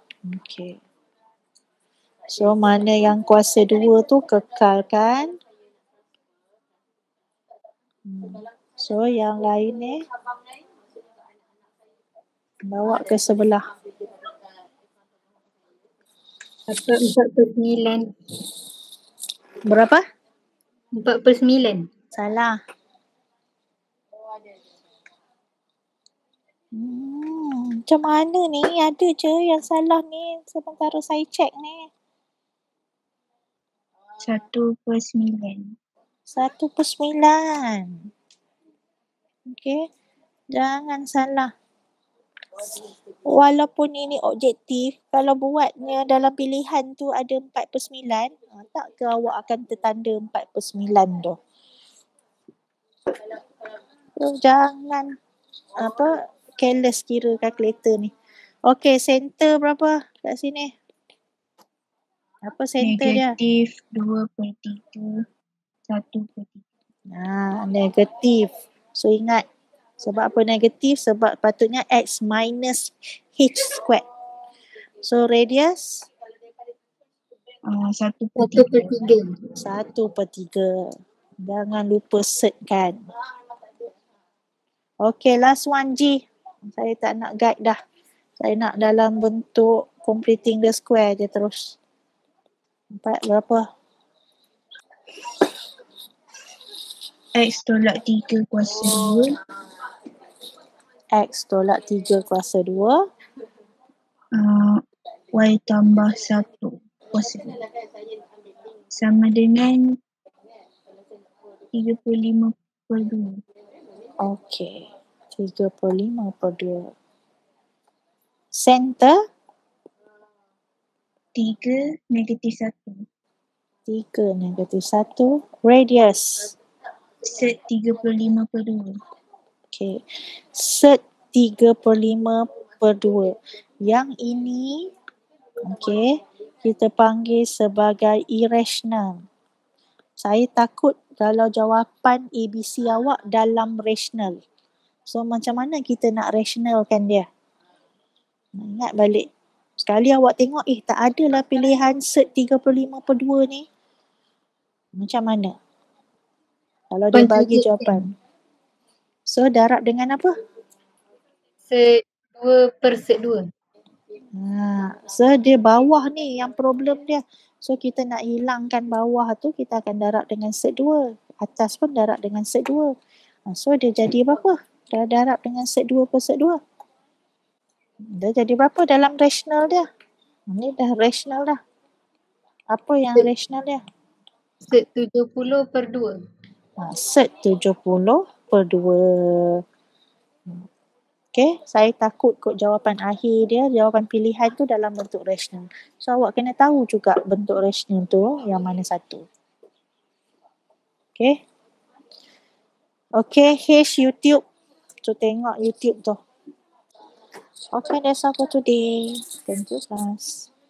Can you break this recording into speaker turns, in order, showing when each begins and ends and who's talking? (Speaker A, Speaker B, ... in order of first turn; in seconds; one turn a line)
Speaker A: 0.2-0.8
Speaker A: 2.3-5.3
Speaker A: 8.1-10.0
Speaker A: 12.6-13.7
Speaker B: 16.7-18.1
Speaker A: 19.6-20.0
Speaker B: 20.9-21.9
Speaker A: 22.1-22.6
Speaker A: 26.7-31.9
Speaker C: 34.2-35.8
Speaker A: 36.3-38.1
Speaker A: 39.5-39.9
Speaker A: 40.5-41.5
Speaker A: 43.2-51.4
Speaker A: 54.2-55.1
Speaker A: 55.8-58.1
Speaker A: 58.6-60.7
Speaker A: 62.4-63.3
Speaker C: 62.8-65.2
Speaker C: 65.9-66.6
Speaker A: 67.1-69.4
Speaker A: 70.0-74.0
Speaker A: 75.0-76.1
Speaker C: 77.7-79.0
Speaker B: 78.4-79.4
Speaker A: 79.6-83.0
Speaker A: 85.0-87.8
Speaker A: 88.4-91.8
Speaker A: 92.9-93.7
Speaker C: 97.3-99.4
Speaker A: 101.1-103.0
Speaker C: 104.3-104.8
Speaker C: 105.3-107.6
Speaker C: 108.9-110.0
Speaker C: 111.7-113.4
Speaker A: 114.2-116.9
Speaker A: 118.5-119.2
Speaker C: 121.3-123.1
Speaker A: 123.9-126.5
Speaker C: 127.2-129.0
Speaker A: 129.7-130.0
Speaker A: 130.5-134.9
Speaker A: 135.6-139.2
Speaker A: 140.2-144.4
Speaker A: 145.1-147.2
Speaker A: 148.6-149.3
Speaker A: 149.8-153.7
Speaker A: 154.9-155.5
Speaker A: 156.9-158.1
Speaker B: 157.1-158.0
Speaker A: 159.3-160.3
Speaker B: 161.7-163.5
Speaker A: 164.3-172.9
Speaker A: 173.5-176.6
Speaker A: 178.1-179.9
Speaker A: 180.5-181.6
Speaker A: 182.7-183.8
Speaker B: 184.7-186.2
Speaker A: 186.8-189.6
Speaker A: 191.3-199.2
Speaker A: 203.2-204.4
Speaker A: 205.0-206.2
Speaker A: 207.7-210.5